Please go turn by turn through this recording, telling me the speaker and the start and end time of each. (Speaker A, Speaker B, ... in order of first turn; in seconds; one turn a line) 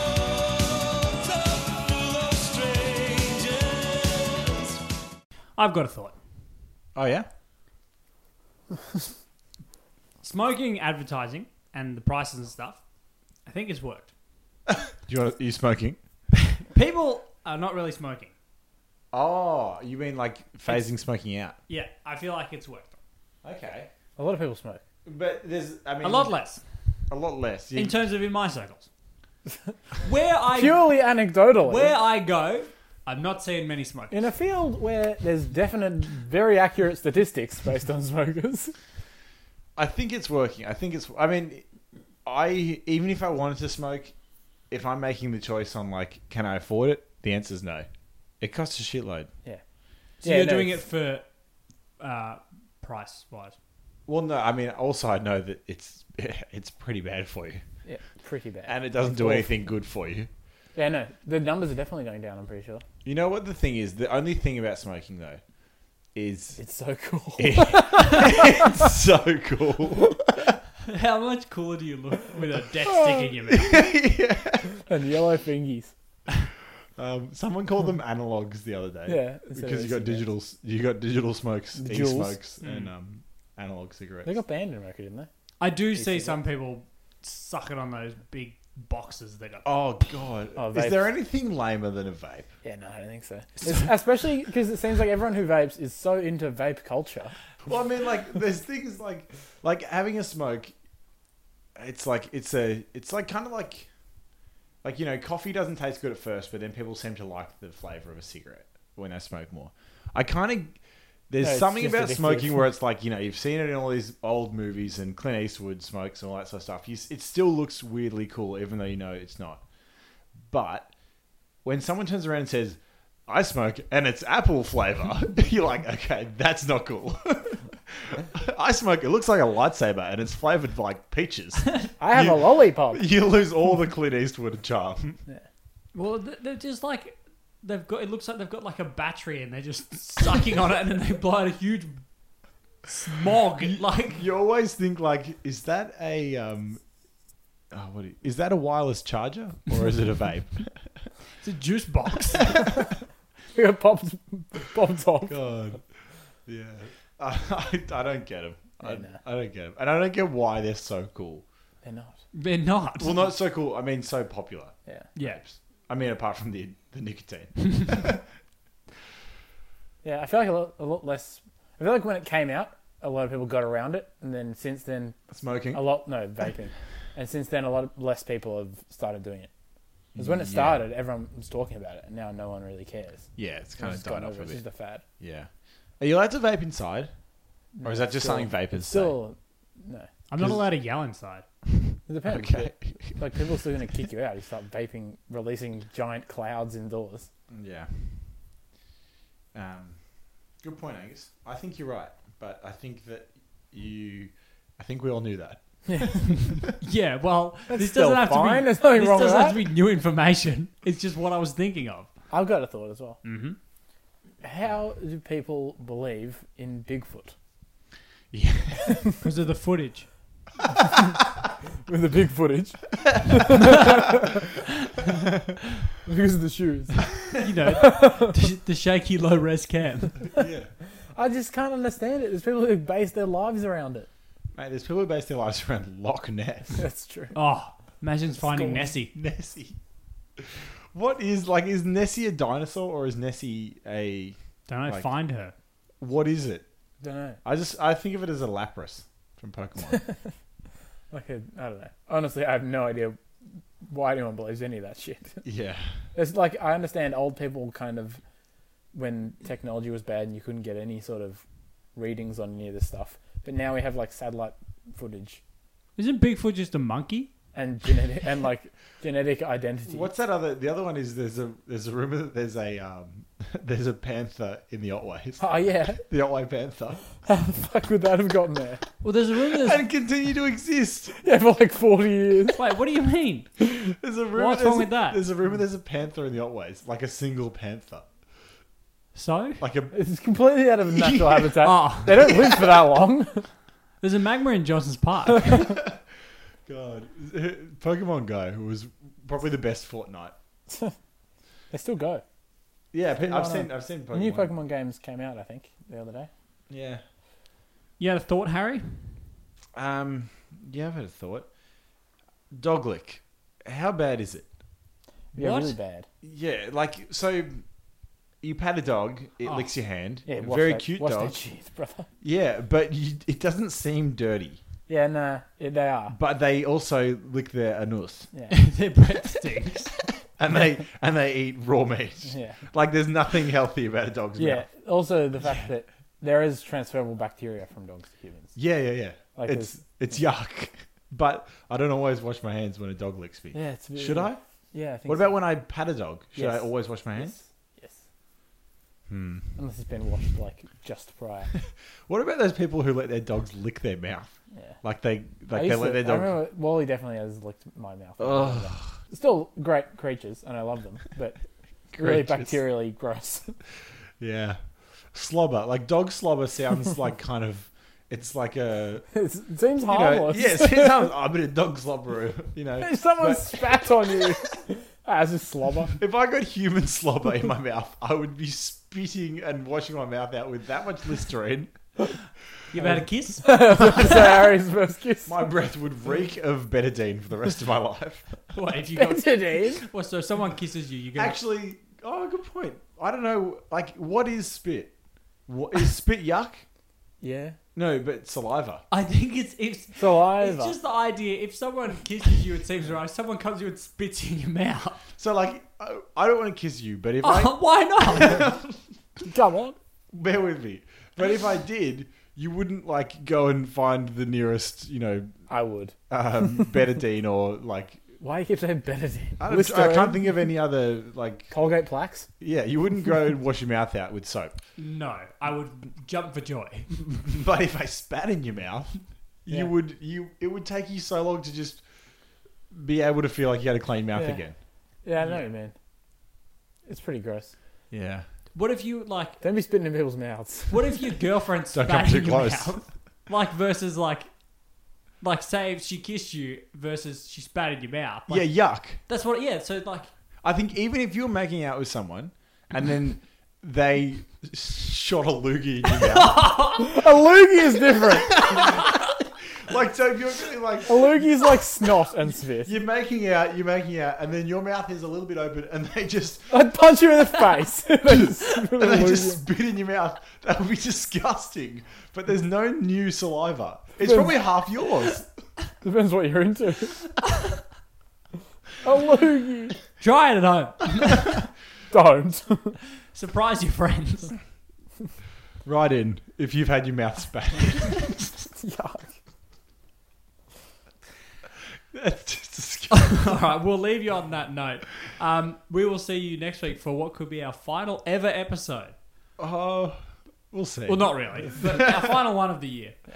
Speaker A: 5.6-6.2
Speaker B: 7.0-7.3
Speaker A: 10.2-12.8
Speaker A: 13.5-14.1
Speaker B: 15.0-16.0
Speaker A: 16.5-18.3
Speaker B: 19.1-21.6
Speaker A: 21.7-23.0
Speaker B: 23.4-23.9
Speaker C: 24.2-24.8
Speaker B: 25.1-26.3
Speaker A: 26.0-26.6
Speaker B: 27.1-28.0
Speaker A: 27.7-28.9
Speaker A: 30.0-30.9
Speaker C: 30.5-31.9
Speaker A: 31.6-34.2
Speaker C: 34.1-38.7
Speaker B: 39.8-41.7
Speaker B: 42.2-44.1
Speaker B: 44.7-47.9
Speaker B: 48.4-49.3
Speaker C: 50.2-50.8
Speaker A: 50.2-51.3
Speaker A: 52.0-53.6
Speaker B: 54.1-57.6
Speaker C: 57.9-59.5
Speaker B: 58.7-60.3
Speaker C: 60.8-62.8
Speaker B: 63.0-65.4
Speaker B: 66.1-66.6
Speaker C: 66.6-68.9
Speaker B: 67.4-70.5
Speaker A: 70.8-73.8
Speaker B: 73.5-74.8
Speaker C: 74.8-75.9
Speaker B: 77.0-84.4
Speaker C: 79.1-80.2
Speaker C: 81.8-82.4
Speaker A: 82.6-82.9
Speaker C: 84.2-85.3
Speaker A: 85.6-89.7
Speaker C: 86.0-86.4
Speaker B: 89.6-92.5
Speaker C: 90.6-91.1
Speaker C: 92.6-97.3
Speaker B: 97.7-100.7
Speaker B: 101.8-103.9
Speaker B: 104.8-110.8
Speaker B: 111.3-119.6
Speaker C: 111.4-112.7
Speaker B: 120.5-120.9
Speaker B: 121.6-135.2
Speaker C: 132.0-133.0
Speaker A: 135.9-142.0
Speaker A: 142.9-144.2
Speaker B: 143.6-146.8
Speaker B: 147.7-150.9
Speaker A: 151.4-152.7
Speaker C: 153.5-155.4
Speaker B: 155.3-155.8
Speaker B: 156.5-161.4
Speaker C: 158.8-159.2
Speaker C: 161.8-162.2
Speaker A: 162.3-163.3
Speaker B: 163.0-168.2
Speaker A: 165.2-165.4
Speaker C: 170.0-175.2
Speaker B: 175.3-175.9
Speaker C: 175.7-179.5
Speaker B: 180.1-180.9
Speaker C: 180.2-185.0
Speaker B: 183.4-184.6
Speaker B: 185.2-185.5
Speaker B: 186.0-187.1
Speaker C: 187.8-190.1
Speaker B: 187.8-189.2
Speaker A: 190.3-191.4
Speaker C: 192.1-197.3
Speaker B: 192.3-193.2
Speaker B: 197.5-198.4
Speaker B: 199.5-206.6
Speaker C: 205.9-206.2
Speaker A: 206.6-212.1
Speaker C: 207.7-209.6
Speaker C: 212.3-213.2
Speaker A: 213.2-213.6
Speaker C: 214.4-217.3
Speaker B: 218.3-219.1
Speaker C: 218.9-219.1
Speaker A: 219.2-220.1
Speaker C: 221.9-224.5
Speaker C: 226.1-227.1
Speaker A: 227.4-230.2
Speaker C: 227.8-228.4
Speaker B: 230.3-230.7
Speaker C: 231.1-234.1
Speaker B: 234.6-236.8
Speaker C: 236.8-237.3
Speaker A: 237.3-239.1
Speaker B: 239.1-239.8
Speaker B: 240.4-244.4
Speaker A: 244.7-245.5
Speaker B: 246.0-246.6
Speaker C: 247.0-247.4
Speaker B: 247.4-250.1
Speaker C: 249.9-250.2
Speaker C: 251.1-255.4
Speaker B: 255.4-256.0
Speaker C: 256.1-258.2
Speaker C: 258.9-261.4
Speaker C: 261.9-265.4
Speaker A: 265.9-267.3
Speaker C: 267.5-270.1
Speaker B: 269.9-277.0
Speaker C: 275.4-276.0
Speaker C: 277.2-278.8
Speaker A: 279.0-279.8
Speaker B: 279.6-281.2
Speaker C: 281.2-282.6
Speaker A: 282.5-283.5
Speaker B: 283.7-288.1
Speaker A: 284.4-285.2
Speaker A: 289.1-289.6
Speaker B: 289.6-289.9
Speaker C: 289.9-293.5
Speaker B: 291.0-291.5
Speaker A: 291.6-292.3
Speaker A: 294.0-295.7
Speaker B: 295.6-295.9
Speaker B: 296.7-300.4
Speaker C: 300.7-300.9
Speaker C: 301.7-302.2
Speaker B: 302.9-304.5
Speaker C: 303.1-306.3
Speaker B: 306.7-307.0
Speaker A: 308.0-309.2
Speaker B: 309.7-311.5
Speaker B: 312.5-314.5
Speaker C: 315.3-316.1
Speaker A: 315.4-315.7
Speaker B: 316.2-317.6
Speaker B: 318.4-321.4
Speaker A: 319.4-319.7
Speaker C: 320.3-322.1
Speaker B: 322.2-324.6
Speaker C: 324.9-326.1
Speaker B: 326.1-328.3
Speaker A: 328.5-329.9
Speaker B: 330.4-334.7
Speaker C: 332.3-332.6
Speaker C: 334.4-338.6
Speaker B: 338.6-344.4
Speaker C: 339.4-339.7
Speaker C: 343.5-345.4
Speaker B: 345.1-347.4
Speaker C: 346.4-348.0
Speaker B: 349.1-349.6
Speaker C: 349.6-351.5
Speaker B: 352.1-356.4
Speaker C: 355.5-361.4
Speaker B: 358.2-359.0
Speaker C: 361.9-363.6
Speaker B: 361.9-362.6
Speaker B: 364.2-364.6
Speaker B: 365.1-369.1
Speaker C: 369.1-371.1
Speaker B: 369.8-373.7
Speaker C: 372.8-376.0
Speaker B: 376.0-381.8
Speaker A: 382.7-384.1
Speaker C: 382.8-385.4
Speaker B: 385.3-388.4
Speaker A: 388.5-391.4
Speaker C: 388.9-389.8
Speaker B: 391.2-394.9
Speaker B: 395.5-396.6
Speaker C: 397.2-397.6
Speaker B: 397.7-398.8
Speaker A: 398.9-405.0
Speaker C: 400.0-400.8
Speaker B: 405.2-408.8
Speaker A: 407.2-408.5
Speaker C: 409.2-409.8
Speaker B: 410.1-415.4
Speaker C: 415.5-415.9
Speaker B: 416.1-418.2
Speaker C: 418.2-420.3
Speaker B: 419.4-421.6
Speaker C: 421.5-422.3
Speaker B: 422.4-424.6
Speaker A: 424.8-426.9
Speaker B: 427.1-431.8
Speaker B: 432.7-434.6
Speaker C: 434.1-434.4
Speaker C: 435.0-435.7
Speaker C: 436.9-437.5
Speaker B: 437.9-438.3
Speaker A: 438.5-439.4
Speaker C: 439.4-441.0
Speaker A: 440.7-444.3
Speaker B: 441.7-442.9
Speaker A: 445.2-450.1
Speaker B: 448.3-449.0
Speaker B: 450.4-456.6
Speaker A: 456.2-456.9
Speaker C: 456.8-458.4
Speaker B: 458.4-459.0
Speaker B: 459.6-461.4
Speaker C: 460.9-462.7
Speaker B: 462.6-466.5
Speaker C: 466.5-469.4
Speaker B: 468.1-475.3
Speaker C: 474.0-474.4
Speaker C: 475.8-476.9
Speaker C: 478.8-479.8
Speaker A: 480.0-481.4
Speaker C: 481.9-482.8
Speaker A: 483.1-484.4
Speaker B: 485.6-488.1
Speaker C: 488.6-489.1
Speaker B: 491.9-493.4
Speaker A: 492.9-498.9
Speaker B: 499.4-502.0
Speaker A: 500.9-503.0